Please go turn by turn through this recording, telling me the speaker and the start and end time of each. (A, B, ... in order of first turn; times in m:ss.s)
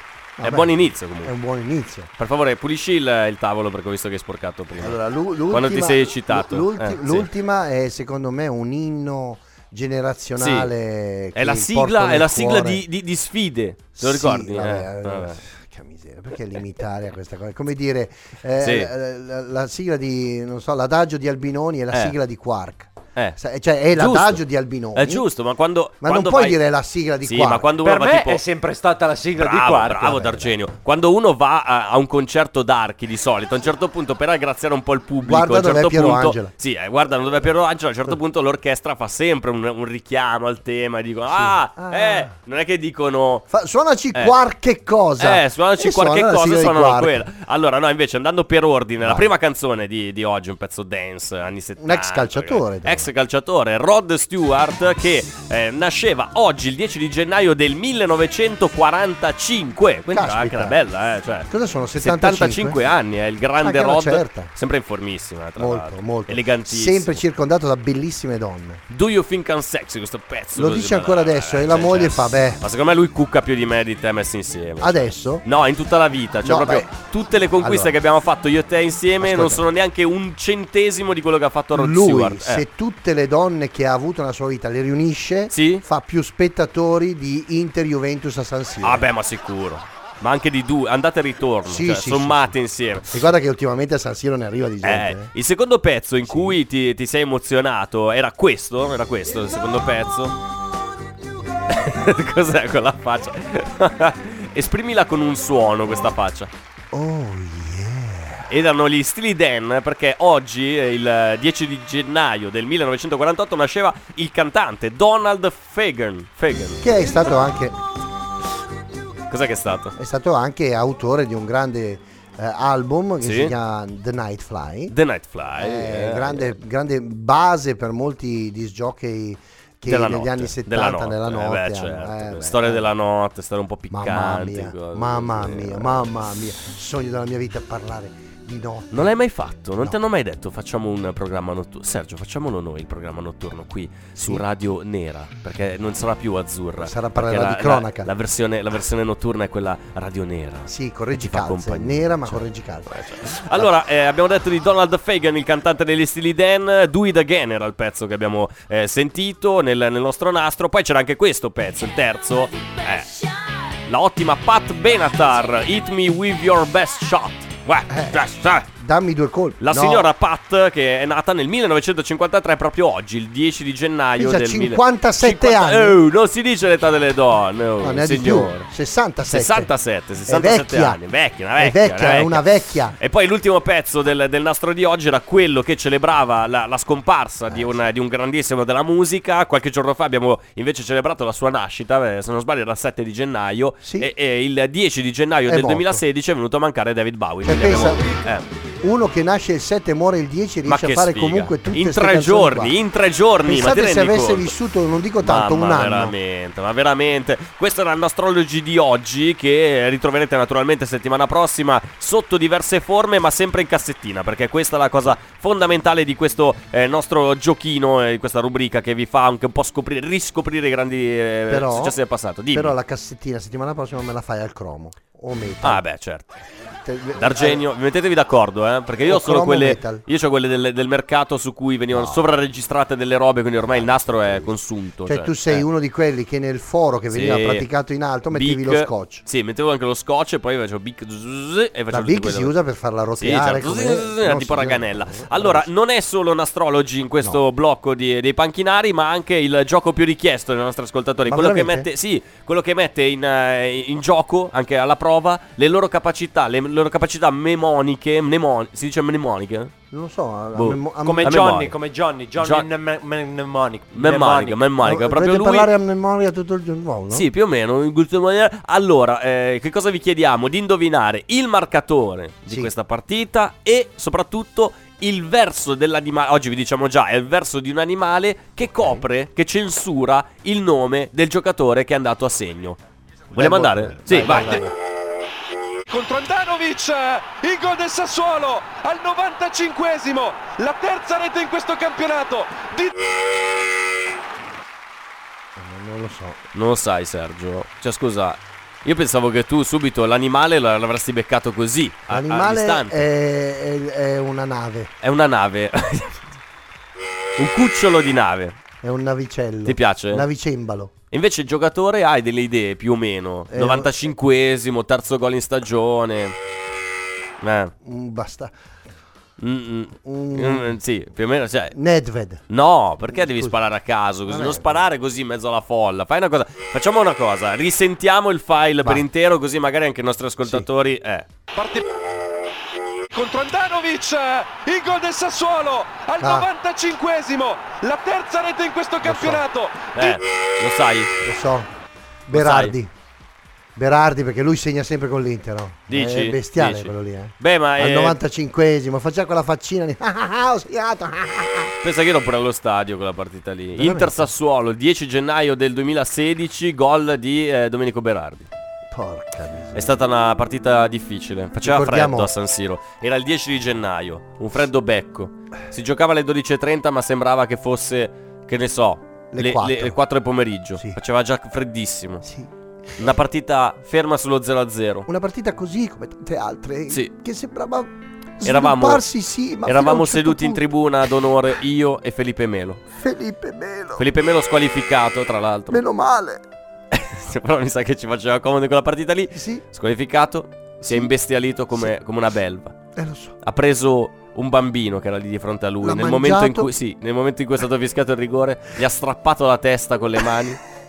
0:00.4-0:02.1 A
0:00.4-0:01.3 B
0:02.2-0:05.0 B
0:04.8-0:12.8 A
0:05.5-0:07.3 B
0:10.4-0:10.7 B
0:11.3-0:15.4 B
0:14.0-0:25.2 A
0:18.6-0:18.9 B
0:23.9-0:24.4 B
0:24.9-0:26.6 B
0:26.0-0:27.7 A
0:27.2-0:28.4 B
0:27.8-0:30.5 C
0:29.4-0:43.4 B
0:35.2-0:36.5 A
0:41.3-0:42.3 A
0:43.5-0:47.3 A
0:45.2-1:07.2 B
0:49.0-0:49.3 A
0:51.8-0:53.1 A
1:00.1-1:00.8 A
1:01.5-1:02.8 A
1:03.6-1:04.5 A
1:05.6-1:08.8 A
1:08.9-1:22.6 B
1:10.5-1:12.6 A
1:14.8-1:15.4 A
1:16.4-1:16.9 A
1:17.6-1:17.9 A
1:19.2-1:19.6 A
1:21.7-1:29.1 A
1:25.5-1:25.8 B
1:28.8-1:33.3 B
1:31.6-1:32.5 A
1:33.1-1:35.3 A
1:34.8-1:40.4 B
1:36.3-1:36.6 A
1:41.7-1:46.5 B
1:46.9-1:48.5 A
1:48.5-1:57.2 B
1:56.8-1:57.8 A
1:59.3-2:00.0 B
2:00.0-2:04.9 A
2:03.2-2:03.5 B
2:04.9-2:06.6 B
2:05.6-2:12.9 A
2:09.8-2:16.1 B
2:13.9-2:19.1 A
2:18.9-2:43.2 B
2:24.2-2:24.4 A
2:26.8-2:28.1 A
2:30.7-2:33.7 A
2:43.8-2:48.7 B
2:47.9-2:50.1 A
2:49.6-2:58.6 B
2:54.2-2:56.0 A
2:57.8-2:59.7 A
2:59.3-3:18.5 B
3:00.2-3:01.0 A
3:01.6-3:02.9 A
3:07.5-3:07.7 A
3:13.8-3:14.1 A
3:15.5-3:16.0 A
3:17.4-3:18.0 A
3:18.8-3:22.8 A
3:20.6-3:24.5 B
3:23.4-3:26.1 A
3:25.2-3:42.7 B
3:41.5-3:45.8 A
3:45.6-3:46.4 B
3:46.8-3:47.6 A
3:47.2-3:55.6 B
3:49.0-3:50.0 A
3:51.9-3:52.3 A
3:53.7-3:54.5 A
3:55.0-3:59.2 A
3:57.1-3:57.7 B
3:58.3-4:02.5 B
4:01.9-4:05.6 A
4:03.2-4:19.7 B
4:11.2-4:11.9 A
4:19.9-4:21.6 A
4:20.5-4:21.7 B
4:21.0-4:24.7 C
4:22.4-4:22.7 B
4:23.9-4:25.7 B
4:24.8-4:27.3 A
4:27.1-4:42.8 B
4:38.7-4:39.0 A
4:43.3-4:44.6 B
4:43.3-4:44.7 A
4:45.9-4:52.9 D
4:55.6-4:56.4 A
4:56.5-5:03.0 B
5:02.1-5:04.9 A
5:05.0-5:06.4 B
5:07.4-5:08.6 B
5:08.8-5:10.9 A
5:09.6-5:10.2 B
5:11.1-5:16.3 B
5:13.5-5:14.1 A
5:17.4-5:17.7 B
5:17.8-5:18.5 A
5:19.4-5:21.7 B
5:20.0-5:20.8 A
5:21.7-5:22.4 A
5:22.5-5:31.3 B
5:23.1-5:23.5 A
5:24.3-5:24.8 A
5:31.5-5:31.8 D
5:33.1-5:40.2 D
5:36.2-5:36.5 A
5:39.0-5:39.4 A
5:39.9-5:41.1 B
5:41.2-5:41.7 A
5:42.3-5:42.9 A
5:42.3-5:42.7 B
5:43.8-5:51.7 A
5:45.9-5:48.2 B
5:51.8-5:58.5 B
5:53.8-5:54.3 A
5:58.9-6:00.0 A
5:59.7-6:12.2 B
6:01.6-6:02.3 A
6:09.3-6:10.0 A
6:12.2-6:13.2 A
6:13.0-6:15.1 B
6:15.1-6:20.6 A
6:18.4-6:19.0 B
6:19.6-6:22.8 B
6:22.9-6:24.1 A
6:24.0-6:25.8 B
6:25.7-6:26.4 A
6:26.9-6:32.8 B
6:29.3-6:29.6 A
6:30.8-6:31.1 A
6:32.9-6:33.3 A
6:33.4-6:40.6 B
6:35.8-6:36.7 A